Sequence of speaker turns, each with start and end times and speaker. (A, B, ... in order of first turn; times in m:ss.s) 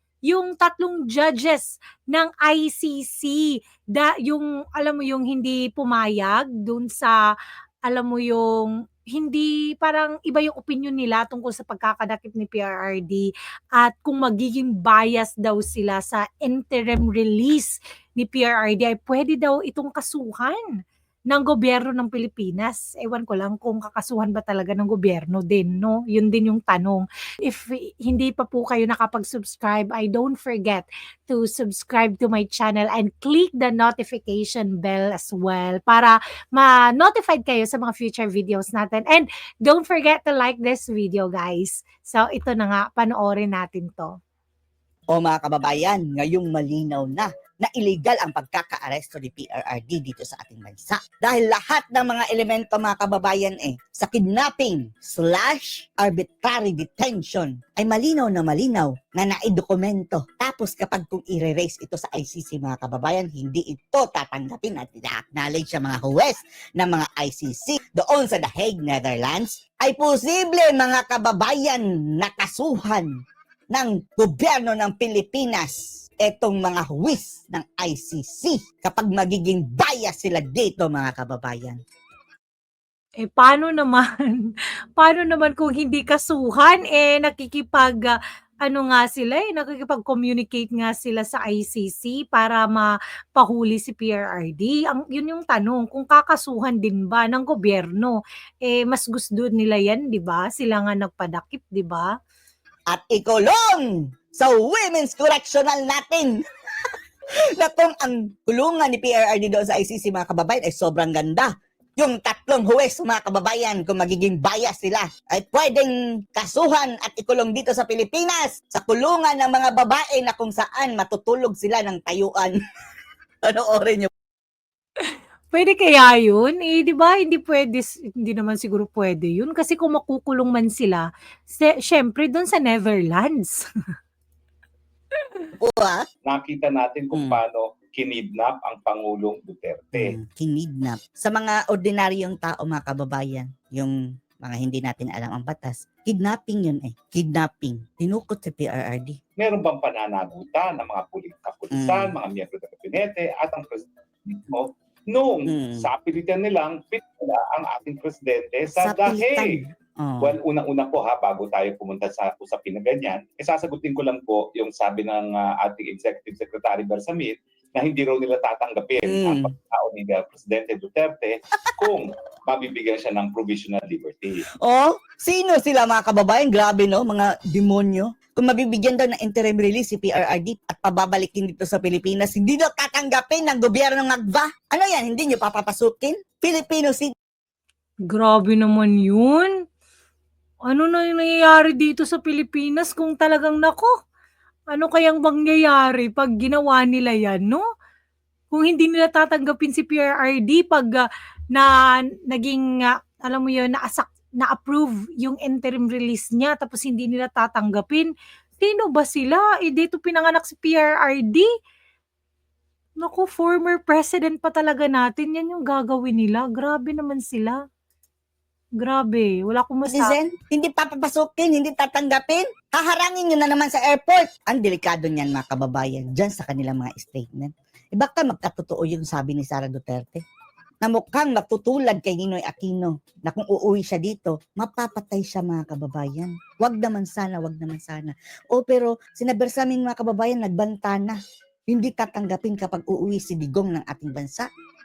0:00.3-0:07.2 A
0:07.9-0:20.6 A
0:21.3-0:44.1 A
0:45.1-1:13.1 B
1:13.7-1:21.8 B
1:23.2-1:42.1 A
1:42.9-1:46.3 B
1:47.6-2:02.5 B
2:03.4-2:04.1 B
2:05.5-2:13.6 A
2:15.6-2:16.0 B
2:16.2-2:20.2 C
2:17.1-2:17.4 B
2:19.9-2:29.2 B
2:29.4-2:39.5 C
2:31.7-2:32.1 B
2:35.5-2:35.9 B
2:38.7-2:40.3 B
2:40.2-2:54.4 C
2:49.0-2:49.5 B
2:54.6-3:07.1 B
3:08.1-3:09.5 A
3:10.7-3:13.9 A
3:14.7-3:17.6 A
3:18.5-3:31.5 A
3:33.0-3:37.6 A
3:38.8-3:40.2 A
3:39.8-3:50.2 B
3:50.8-4:01.2 B
4:01.7-4:04.5 B